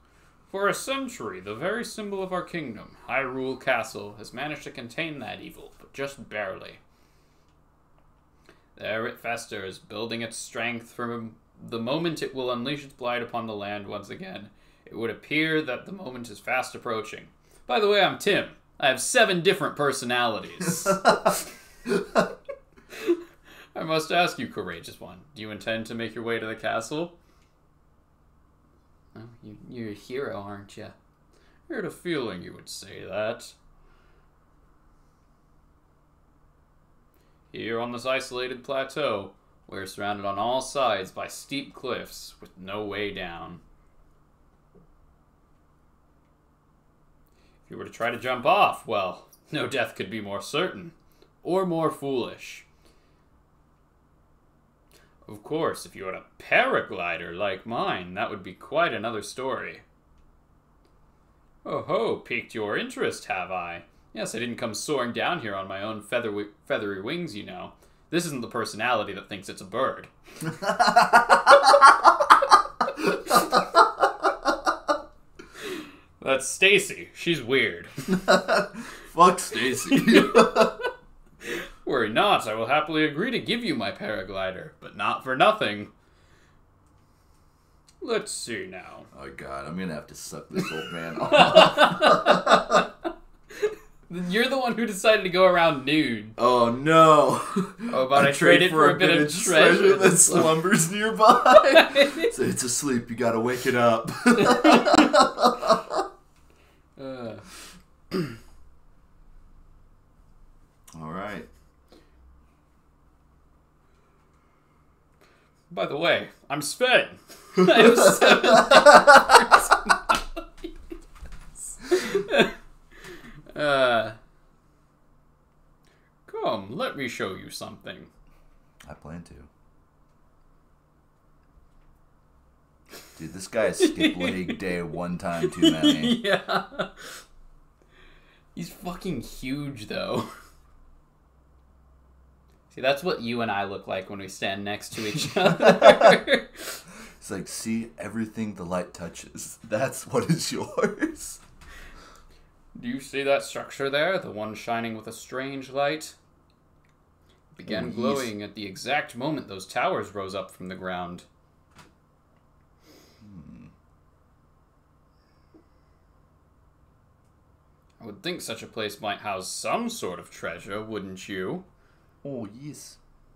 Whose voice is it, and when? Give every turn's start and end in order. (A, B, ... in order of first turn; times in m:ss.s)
0:00.5-0:06.8 A
0:08.8-0:21.5 A
0:22.9-0:23.2 A
0:23.7-0:27.1 A
0:29.1-0:30.9 A
0:31.7-0:33.5 A
0:37.5-0:43.6 A
0:47.7-0:52.6 A
0:55.3-0:59.8 A
1:01.6-1:10.1 A
1:10.4-1:11.9 B
1:13.2-1:13.8 B
1:15.6-1:18.0 A
1:18.0-1:20.7 B
1:19.8-1:20.9 A
1:21.4-1:25.9 A
1:28.0-1:29.1 A
1:29.1-1:32.8 B
1:31.2-1:32.9 A
1:33.6-1:36.4 A
1:36.4-1:46.0 B
1:37.9-1:40.6 A
1:41.5-1:42.3 A
1:44.5-1:45.1 A
1:47.0-1:47.5 A
1:50.9-1:51.5 B
1:55.7-2:00.7 A
1:57.7-1:58.9 B
2:01.8-2:02.5 A
2:03.5-2:04.2 A
2:06.3-2:08.1 A
2:08.8-2:09.5 B
2:13.2-2:16.2 B
2:13.8-2:14.7 A
2:15.4-2:17.2 A
2:18.5-2:20.3 A
2:22.7-2:26.8 A
2:25.1-2:26.2 B
2:27.2-2:31.4 B
2:32.7-2:36.1 A
2:37.5-2:41.2 A
2:37.6-2:38.3 B
2:43.2-2:43.7 B
2:48.0-2:51.6 A
2:52.2-2:53.0 B